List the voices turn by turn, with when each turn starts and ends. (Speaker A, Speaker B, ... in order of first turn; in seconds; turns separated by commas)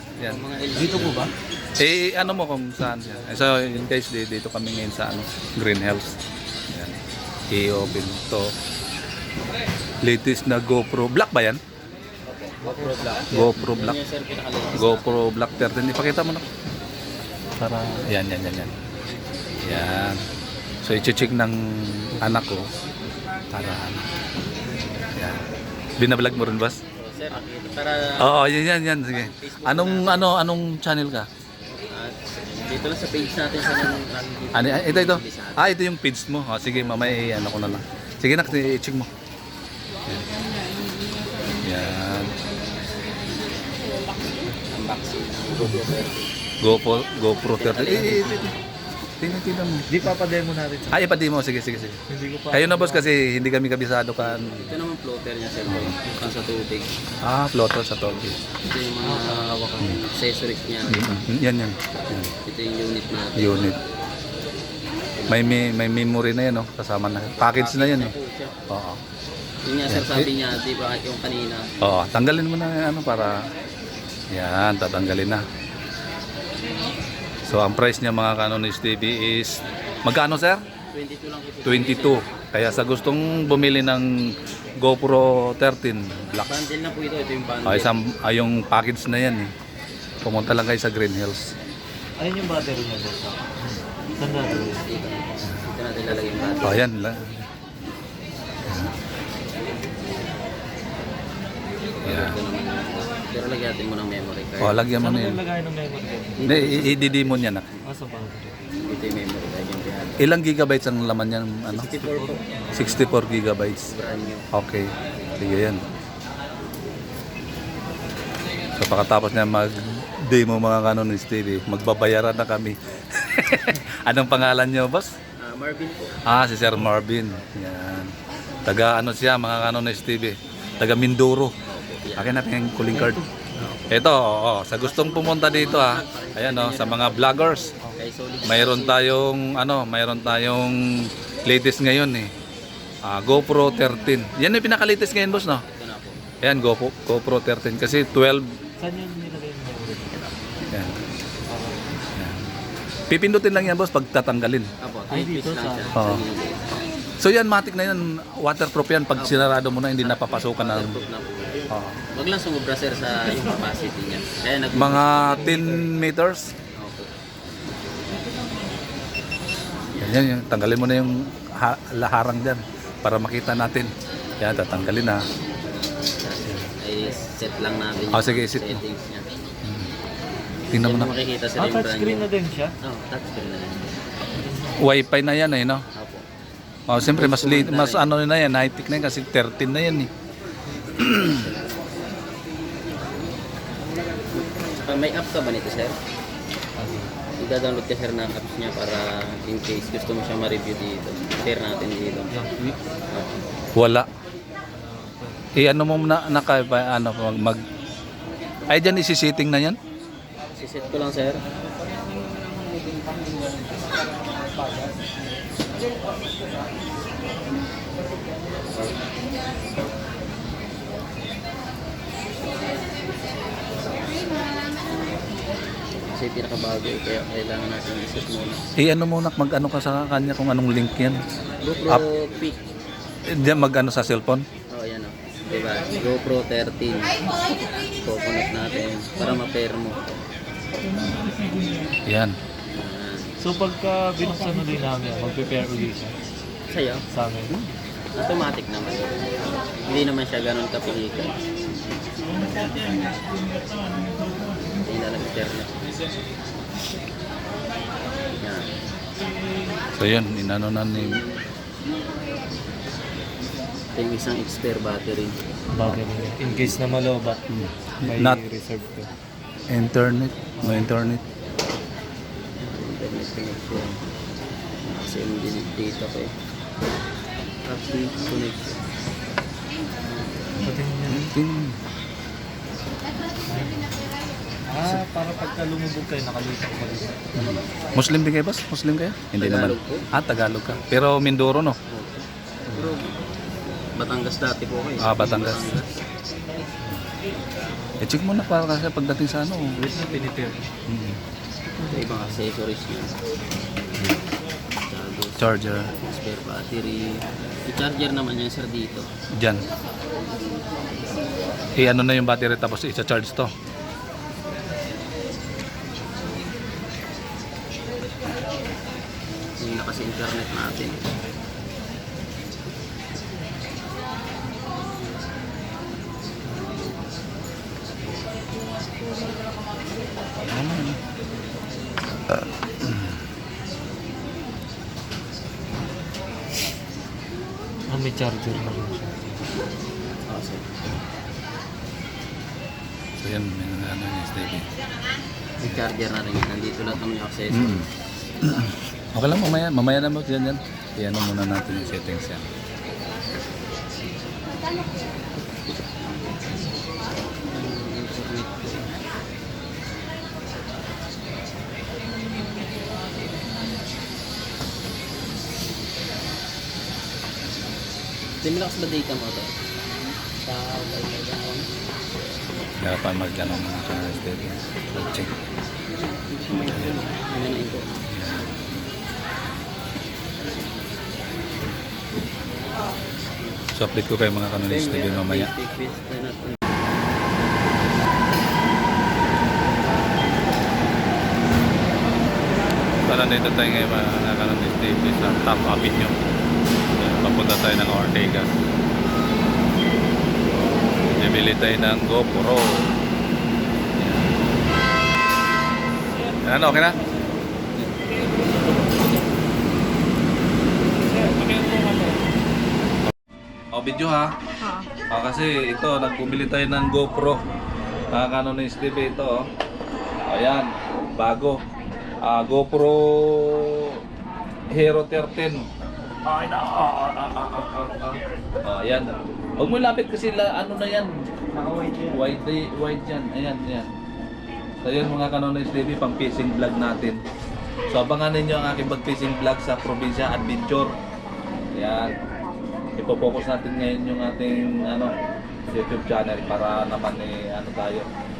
Speaker A: 0.2-1.1, Speaker B: 0.2-1.3, Speaker C: 0.8-1.3, Speaker A: 1.8-6.2, Speaker A: 6.7-7.0, Speaker A: 7.5-8.5, Speaker A: 10.0-11.6, Speaker B: 12.2-15.3, Speaker A: 13.3-14.0, Speaker A: 14.8-16.4, Speaker A: 17.6-18.7, Speaker A: 19.6-20.2, Speaker A: 20.8-22.6, Speaker A: 23.5-24.0, Speaker A: 25.1-25.4, Speaker A: 26.0-26.8, Speaker B: 27.0-28.4, Speaker A: 28.2-31.3, Speaker B: 29.1-30.3, Speaker B: 31.8-35.7, Speaker A: 34.5-39.1, Speaker A: 41.6-42.3, Speaker B: 44.7-46.3, Speaker A: 45.6-45.9, Speaker A: 46.6-48.5, Speaker B: 47.5-48.5, Speaker A: 49.2-49.9, Speaker C: 49.9-51.1, Speaker A: 50.9-52.0, Speaker C: 52.1-53.1, Speaker A: 52.5-54.5, Speaker B: 54.2-57.0, Speaker A: 55.7-56.0, Speaker A: 57.2-58.4, Speaker B: 58.6-61.2, Speaker C: 59.0-60.0, Speaker A: 60.9-62.3, Speaker B: 62.4-63.7, Speaker A: 63.3-63.8, Speaker B: 65.2-65.6, Speaker A: 65.3-68.1, Speaker B: 67.3-68.6, Speaker A: 68.7-69.0, Speaker B: 69.7-71.8, Speaker A: 69.9-70.3, Speaker A: 71.8-73.4, Speaker A: 74.3-75.4, Speaker A: 77.5-80.6, Speaker B: 80.9-82.3, Speaker A: 81.6-84.1, Speaker A: 84.8-86.5, Speaker B: 86.4-88.0, Speaker A: 87.7-89.5, Speaker A: 90.2-91.4, Speaker C: 92.2-94.8, Speaker B: 94.5-96.8, Speaker A: 96.6-97.4, Speaker A: 98.7-98.9, Speaker B: 102.0-104.8, Speaker A: 102.0-102.3, Speaker A: 104.6-105.4, Speaker C: 105.0-106.6, Speaker B: 106.4-107.8, Speaker A: 106.5-107.6, Speaker C: 107.8-108.6, Speaker B: 108.8-110.2, Speaker A: 110.2-112.0, Speaker B: 111.7-112.4, Speaker C: 112.1-113.0, Speaker A: 112.7-113.9, Speaker B: 113.9-114.4, Speaker A: 114.5-114.8, Speaker A: 115.4-115.8, Speaker A: 118.8-125.1, Speaker B: 125.4-126.2, Speaker A: 126.3-128.1, Speaker A: 128.7-131.5, Speaker B: 131.7-133.1, Speaker A: 132.2-133.2, Speaker C: 132.9-133.7, Speaker B: 133.6-134.1, Speaker A: 133.9-137.7, Speaker B: 134.8-139.1, Speaker A: 138.4-140.8, Speaker A: 141.4-142.3, Speaker A: 143.1-145.6, Speaker B: 145.5-146.2, Speaker A: 146.4-148.5, Speaker C: 148.8-150.5, Speaker A: 150.7-151.0, Speaker C: 151.5-152.0, Speaker A: 152.1-152.5, Speaker A: 153.1-154.7, Speaker B: 154.8-156.7, Speaker C: 155.1-156.1, Speaker A: 155.9-156.2, Speaker A: 157.2-161.0, Speaker B: 159.2-165.8, Speaker A: 161.7-162.0, Speaker A: 164.7-166.4, Speaker B: 166.8-167.1, Speaker A: 170.0-175.2, Speaker B: 176.2-179.3, Speaker A: 176.4-176.7, Speaker A: 178.1-178.8, Speaker A: 179.6-179.9, Speaker A: 180.7-181.1, Speaker B: 180.7-182.3, Speaker C: 181.6-182.7, Speaker B: 182.8-183.9, Speaker C: 184.4-184.8, Speaker A: 184.8-185.8, Speaker B: 185.9-186.2, Speaker A: 186.9-190.1, Speaker B: 187.0-188.1, Speaker A: 190.9-191.4, Speaker B: 191.0-191.8, Speaker B: 194.3-196.0, Speaker C: 196.8-197.1, Speaker B: 197.4-202.4, Speaker C: 202.3-202.9, Speaker B: 203.1-203.3, Speaker A: 203.7-204.1, Speaker C: 204.7-205.5, Speaker A: 205.6-207.6, Speaker A: 208.7-209.8, Speaker B: 210.6-211.4, Speaker B: 218.7-219.0, Speaker B: 225.9-228.6, Speaker A: 228.8-231.2, Speaker B: 231.6-232.6, Speaker A: 233.3-234.4, Speaker B: 234.7-237.2, Speaker B: 238.0-240.2, Speaker A: 242.1-242.3, Speaker B: 242.7-243.4, Speaker C: 243.4-246.2, Speaker B: 246.7-247.1, Speaker C: 247.1-247.6, Speaker B: 248.1-251.4, Speaker B: 254.8-255.8, Speaker B: 258.4-258.7, Speaker A: 260.0-261.2, Speaker B: 260.9-261.5, Speaker B: 263.9-266.8, Speaker C: 265.7-267.4, Speaker A: 267.5-268.4, Speaker C: 268.0-269.1, Speaker A: 269.7-271.2, Speaker C: 270.6-270.9, Speaker B: 272.6-274.0, Speaker B: 274.8-276.3, Speaker B: 277.6-278.8, Speaker B: 280.1-280.6, Speaker C: 280.6-281.4, Speaker A: 281.1-281.8, Speaker C: 283.5-284.0, Speaker C: 284.7-287.4, Speaker A: 287.4-291.8, Speaker B: 287.4-287.6, Speaker B: 289.4-290.1, Speaker B: 291.9-293.2, Speaker A: 292.7-293.0, Speaker B: 293.8-296.0, Speaker A: 295.0-295.7, Speaker A: 298.0-299.7, Speaker C: 299.8-300.6, Speaker A: 300.9-301.2, Speaker B: 301.9-303.2, Speaker B: 304.8-309.1, Speaker A: 305.4-305.9, Speaker A: 309.4-309.6, Speaker A: 311.8-313.5, Speaker B: 319.6-321.0, Speaker A: 330.4-331.0, Speaker A: 332.3-333.2, Speaker C: 337.9-339.4, Speaker B: 340.3-340.6, Speaker A: 343.2-344.7, Speaker B: 345.6-347.9, Speaker A: 347.5-347.9, Speaker A: 348.4-352.5, Speaker B: 357.5-358.9, Speaker B: 368.4-369.5, Speaker B: 370.4-371.7, Speaker A: 372.8-375.3, Speaker B: 375.9-378.0, Speaker A: 378.1-378.6, Speaker A: 383.7-385.5, Speaker B: 384.6-386.6, Speaker A: 393.0-396.2, Speaker A: 397.0-398.6, Speaker A: 401.1-402.7, Speaker A: 404.0-404.3, Speaker A: 406.4-407.0, Speaker A: 413.7-414.3, Speaker A: 415.1-417.4, Speaker A: 418.1-419.4, Speaker A: 420.3-421.6, Speaker A: 422.2-424.0, Speaker A: 424.7-425.7, Speaker A: 426.3-431.1, Speaker C: 431.5-432.3, Speaker A: 432.1-433.9, Speaker A: 434.8-437.2, Speaker A: 437.9-440.9, Speaker A: 441.7-442.1, Speaker A: 443.0-445.1, Speaker A: 445.7-448.1